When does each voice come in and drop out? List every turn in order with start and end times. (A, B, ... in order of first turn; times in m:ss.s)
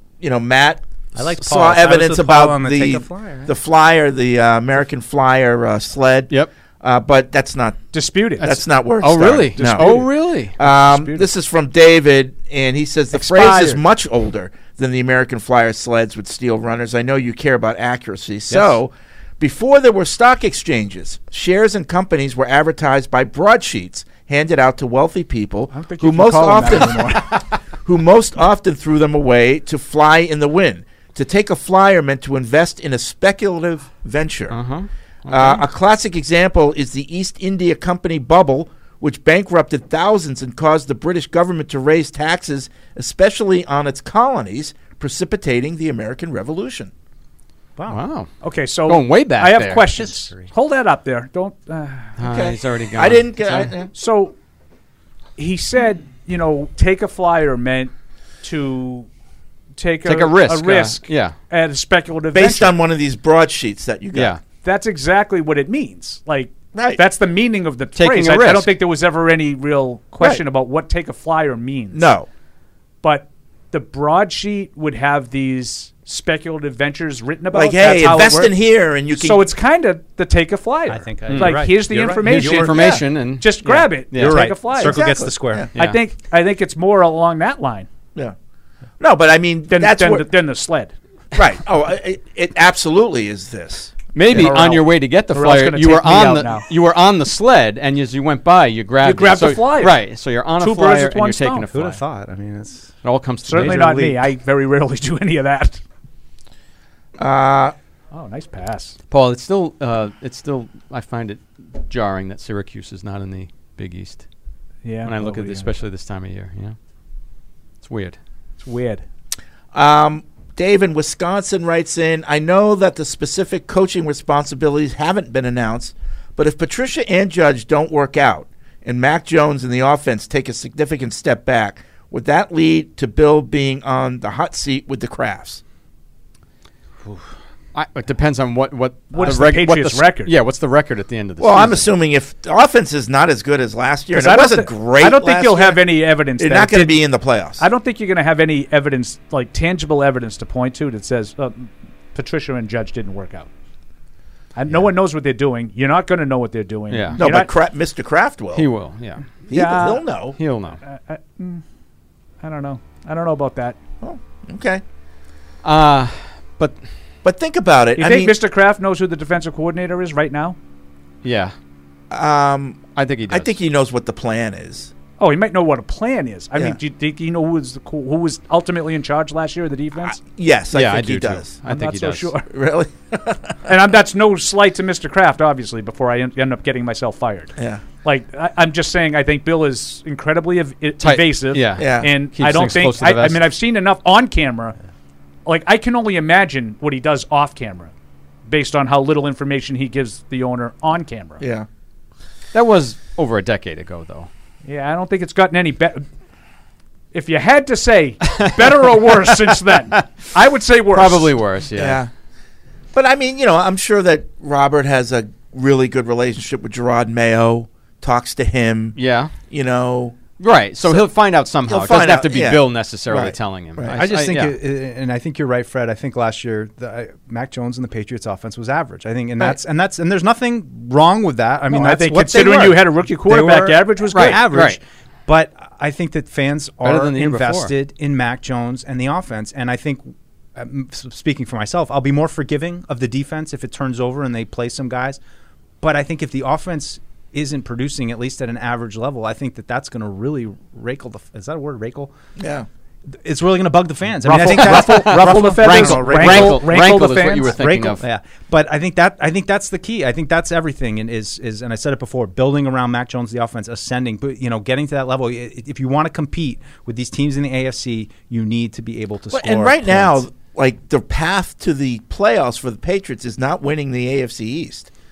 0:00.2-0:07.9 A
0:01.1-0:03.5 B
0:07.9-0:08.6 C
0:08.4-0:10.0 A
0:08.5-0:10.5 D
0:09.6-0:11.3 C
0:10.6-0:34.6 A
0:13.1-0:13.8 C
0:25.7-0:27.4 C
0:34.5-0:35.6 D
0:35.3-0:46.9 A
0:47.8-0:48.0 B
0:47.9-0:48.3 D
0:48.4-0:52.1 C
0:48.9-0:50.0 D
0:49.9-0:50.5 B
0:52.2-0:53.7 D
0:52.2-0:53.9 A
0:53.9-0:54.3 C
0:55.4-0:59.1 C
0:59.8-1:02.8 C
1:00.0-1:01.3 D
1:02.3-1:04.4 A
1:04.1-1:04.4 D
1:04.6-1:12.1 C
1:06.7-1:07.0 A
1:07.9-1:08.7 D
1:11.9-1:12.3 A
1:13.0-1:18.5 C
1:17.5-1:19.5 A
1:19.1-1:25.0 C
1:20.9-1:23.0 B
1:21.3-1:24.6 D
1:22.7-1:23.0 A
1:23.6-1:25.7 B
1:24.8-1:25.7 A
1:25.7-1:27.9 C
1:29.0-1:30.3 A
1:29.7-1:30.9 C
1:31.3-1:34.5 A
1:34.1-1:42.0 D
1:34.3-1:36.6 C
1:39.0-1:40.0 C
1:40.6-1:41.7 C
1:41.7-1:44.2 B
1:43.0-1:44.1 D
1:43.4-1:45.8 C
1:47.2-1:47.7 A
1:48.1-1:49.0 C
1:49.1-1:54.2 D
1:54.8-1:55.7 C
1:55.0-1:56.8 D
1:57.8-1:58.2 D
1:58.6-1:59.0 C
1:59.7-2:15.6 A
2:17.7-2:21.9 D
2:19.1-2:20.3 C
2:21.4-2:27.6 A
2:24.1-2:27.0 C
2:27.6-2:33.5 C
2:34.6-2:37.5 C
2:36.9-2:37.2 D
2:37.2-2:38.7 A
2:38.5-2:39.2 D
2:39.5-2:40.4 A
2:39.5-2:40.1 C
2:40.4-2:40.8 D
2:40.8-2:41.6 C
2:42.4-2:43.8 C
2:44.0-2:44.8 A
2:45.6-2:46.8 D
2:47.2-2:48.4 A
2:48.0-2:50.6 C
2:51.2-2:51.5 D
2:52.1-2:54.9 A
2:53.0-2:53.6 D
2:55.2-3:00.2 C
3:00.0-3:01.5 A
3:00.7-3:02.3 D
3:01.6-3:02.5 C
3:02.5-3:03.6 A
3:03.6-3:14.8 C
3:07.6-3:07.8 A
3:11.0-3:13.5 D
3:11.8-3:12.1 A
3:15.4-3:17.9 C
3:18.4-3:21.4 C
3:21.4-3:21.7 A
3:22.5-3:24.3 D
3:24.6-3:26.0 C
3:27.1-3:31.3 C
3:30.9-3:32.0 D
3:31.8-3:32.1 A
3:32.9-3:40.2 A
3:39.0-3:39.3 D
3:40.4-3:44.6 D
3:40.8-3:41.1 A
3:41.6-3:44.0 A
3:43.9-4:05.2 B
3:51.7-3:54.4 C
3:54.1-3:54.8 D
3:56.8-3:57.7 D
4:05.8-4:12.1 B
4:12.4-4:12.7 A
4:13.1-4:30.2 B
4:14.2-4:17.6 C
4:14.3-4:18.0 D
4:29.3-4:34.9 A